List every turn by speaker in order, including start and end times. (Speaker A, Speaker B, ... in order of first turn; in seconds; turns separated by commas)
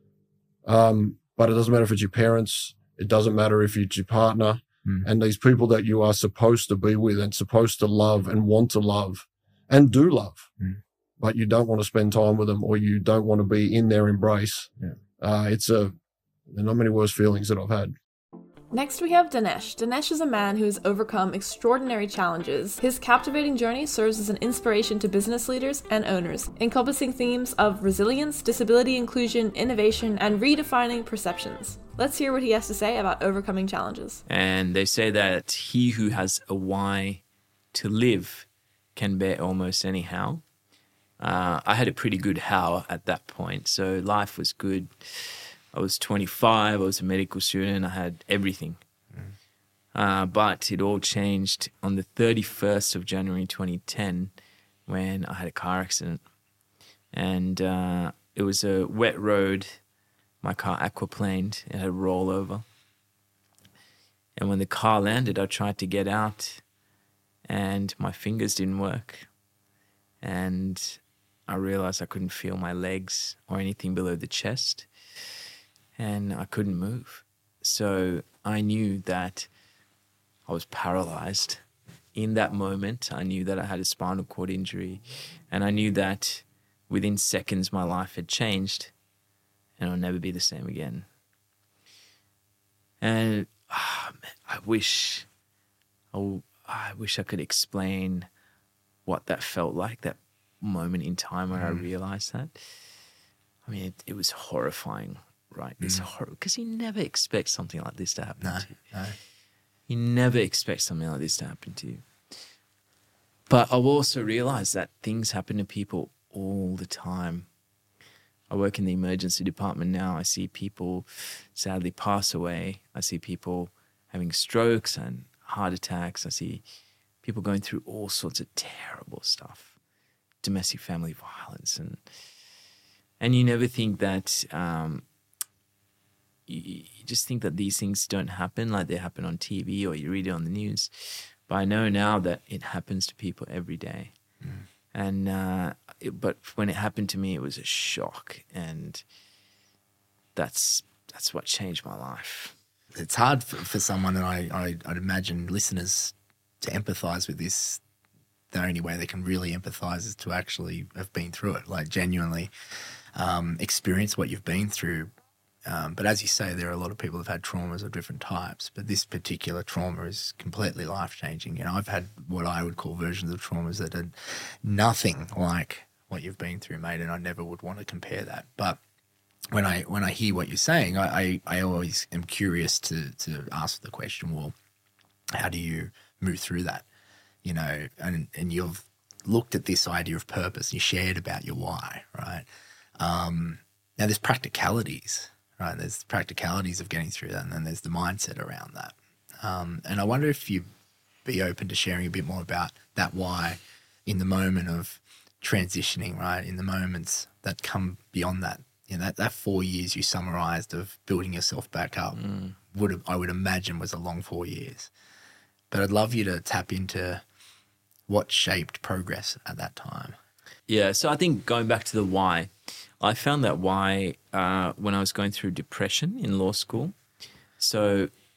Speaker A: 0.7-10.5, Speaker A: 11.2-15.9, Speaker A: 16.5-17.9, Speaker B: 18.7-34.2, Speaker C: 34.3-40.4, Speaker C: 41.2-48.8, Speaker C: 50.0-54.3, Speaker C: 54.9-56.2, Speaker C: 57.1-59.8, Speaker C: 60.4-62.6, Speaker C: 64.4-66.6, Speaker C: 67.5-69.3, Speaker C: 70.2-74.9, Speaker C: 76.0-79.5, Speaker C: 80.5-81.6, Speaker C: 82.2-88.9, Speaker C: 89.8-91.1, Speaker C: 93.0-95.3, Speaker C: 96.1-98.3, Speaker C: 99.1-102.6, Speaker D: 101.5-101.8, Speaker C: 103.7-108.8, Speaker D: 108.4-109.2, Speaker C: 109.9-112.1, Speaker C: 113.5-117.5, Speaker C: 118.5-126.6, Speaker C: 127.2-129.7, Speaker C: 130.4-132.1, Speaker C: 133.2-135.0, Speaker C: 136.5-144.1, Speaker C: 144.9-149.0, Speaker C: 150.3-152.6, Speaker D: 152.9-157.8, Speaker D: 158.5-162.5, Speaker D: 163.2-165.1, Speaker D: 165.7-178.8, Speaker D: 179.5-184.6, Speaker D: 185.3-186.9, Speaker D: 187.4-192.5, Speaker D: 193.0-200.7, Speaker D: 201.2-214.9, Speaker C: 212.2-212.6, Speaker D: 215.7-217.2, Speaker D: 218.1-220.2, Speaker C: 220.7-226.9, Speaker C: 227.6-228.1